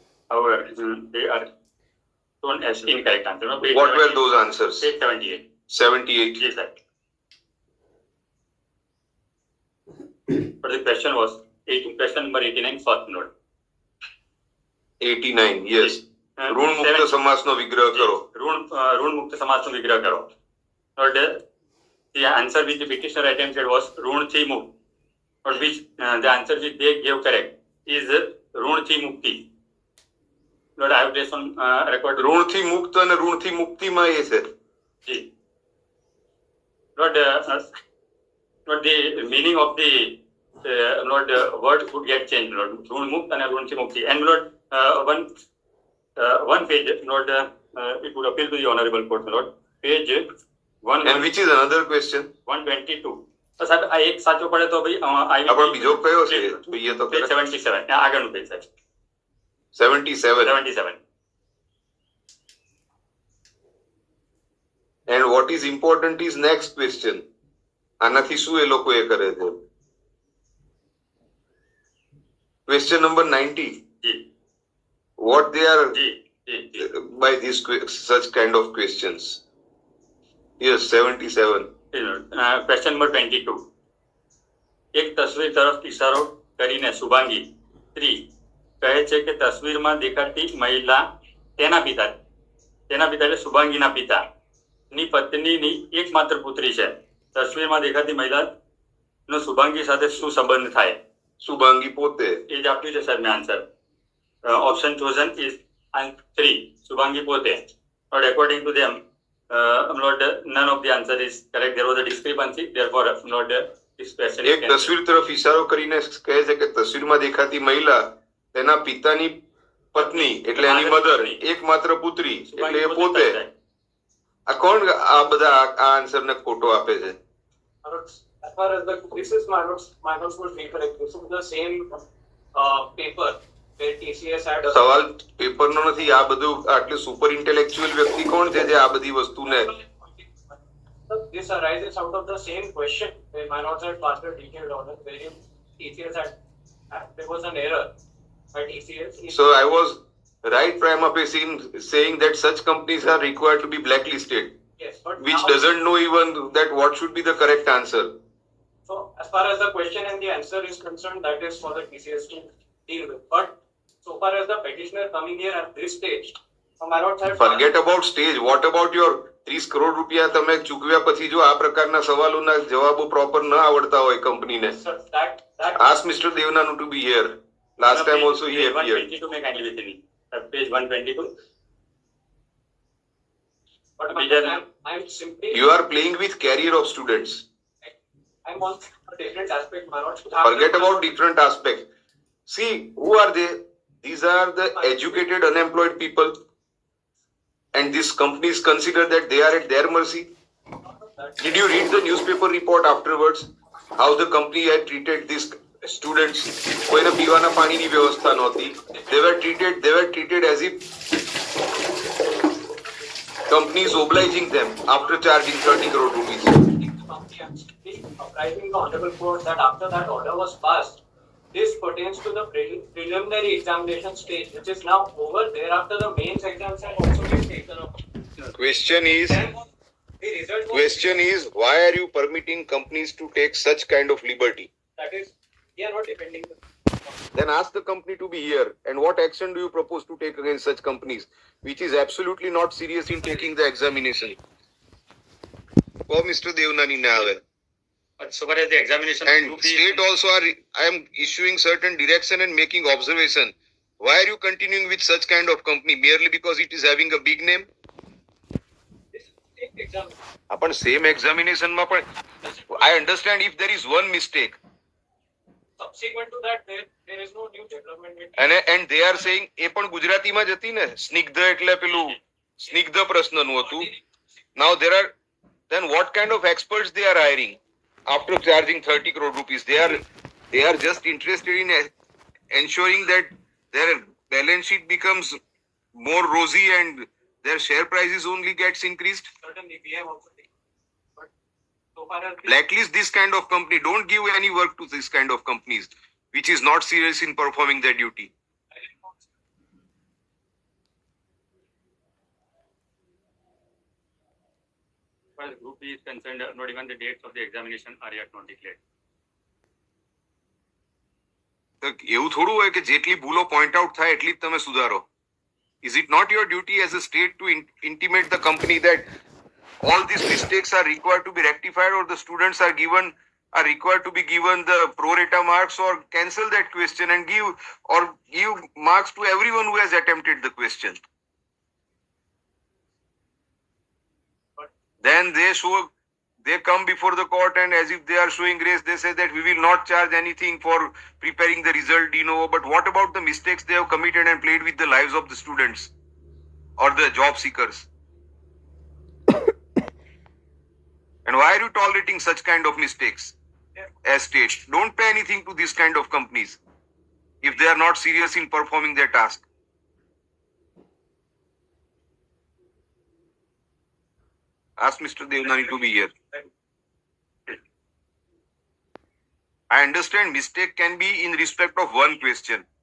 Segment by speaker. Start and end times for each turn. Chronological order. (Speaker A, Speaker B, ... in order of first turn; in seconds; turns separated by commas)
Speaker A: 0.3-1.5, Speaker A: 2.4-4.2, Speaker B: 3.7-4.9, Speaker A: 4.8-5.4, Speaker B: 5.7-6.4, Speaker A: 6.4-6.8, Speaker A: 10.6-13.3, Speaker B: 15.0-18.2, Speaker A: 15.8-17.1, Speaker A: 17.9-20.3, Speaker A: 21.0-21.4, Speaker A: 22.1-24.7, Speaker A: 25.4-29.4, Speaker A: 30.8-32.3, Speaker B: 32.2-34.5, Speaker A: 37.0-37.7, Speaker A: 38.6-45.3, Speaker A: 46.2-50.3, Speaker A: 50.8-51.3, Speaker B: 51.0-52.3, Speaker A: 52.5-58.7, Speaker B: 55.5-57.3, Speaker B: 59.7-60.5, Speaker A: 60.4-61.0, Speaker B: 65.1-67.2, Speaker B: 68.0-69.5, Speaker B: 72.7-73.8, Speaker B: 75.2-76.0, Speaker A: 75.9-76.9, Speaker B: 76.8-79.4, Speaker B: 80.6-81.7, Speaker A: 81.9-83.6, Speaker A: 84.9-88.2, Speaker A: 88.8-91.0, Speaker A: 91.6-92.2, Speaker A: 92.9-94.2, Speaker A: 94.9-98.5, Speaker A: 99.3-101.0, Speaker B: 101.4-102.4, Speaker A: 102.5-103.6, Speaker A: 104.4-109.0, Speaker A: 109.5-114.9, Speaker B: 114.4-119.3, Speaker B: 119.9-123.4, Speaker A: 120.0-121.4, Speaker A: 122.5-123.5, Speaker B: 124.5-127.2, Speaker C: 127.8-132.0, Speaker C: 132.5-134.8, Speaker B: 134.6-139.7, Speaker C: 139.4-140.3, Speaker C: 141.1-146.3, Speaker C: 146.9-147.9, Speaker C: 148.5-149.4, Speaker B: 149.3-154.5, Speaker C: 154.8-155.5, Speaker B: 155.2-158.1, Speaker C: 158.9-167.7, Speaker B: 167.4-174.8, Speaker C: 174.7-175.8, Speaker B: 175.8-179.1, Speaker A: 177.9-181.3, Speaker C: 184.0-185.7, Speaker A: 184.1-184.6, Speaker B: 185.5-187.4, Speaker C: 188.4-191.0, Speaker B: 190.4-191.8, Speaker B: 192.4-196.3, Speaker C: 194.8-195.2, Speaker B: 197.7-200.3, Speaker C: 200.9-201.7, Speaker B: 201.4-210.8, Speaker B: 213.5-216.6, Speaker C: 216.7-221.0, Speaker C: 221.5-228.0, Speaker B: 228.5-229.4, Speaker C: 229.3-229.6, Speaker C: 230.2-231.2, Speaker B: 230.7-234.7, Speaker C: 235.0-236.6, Speaker B: 237.3-244.4, Speaker B: 246.1-247.4, Speaker A: 248.2-250.0, Speaker B: 249.2-257.7, Speaker C: 259.1-260.1, Speaker B: 260.5-262.1, Speaker C: 262.4-262.9, Speaker B: 262.7-264.6, Speaker C: 265.8-268.5, Speaker B: 268.4-273.9, Speaker B: 274.6-275.1, Speaker B: 275.7-281.9, Speaker B: 282.5-285.4, Speaker B: 285.9-289.3, Speaker C: 289.4-290.5, Speaker C: 291.9-292.5, Speaker B: 292.4-298.3, Speaker C: 298.8-299.2, Speaker A: 305.4-308.8, Speaker B: 311.8-315.1, Speaker B: 315.8-319.1, Speaker B: 319.8-331.0, Speaker B: 335.0-345.9, Speaker B: 346.8-347.9, Speaker B: 351.2-353.3, Speaker B: 354.0-356.6, Speaker B: 357.4-359.4, Speaker B: 364.8-366.3, Speaker B: 369.7-372.6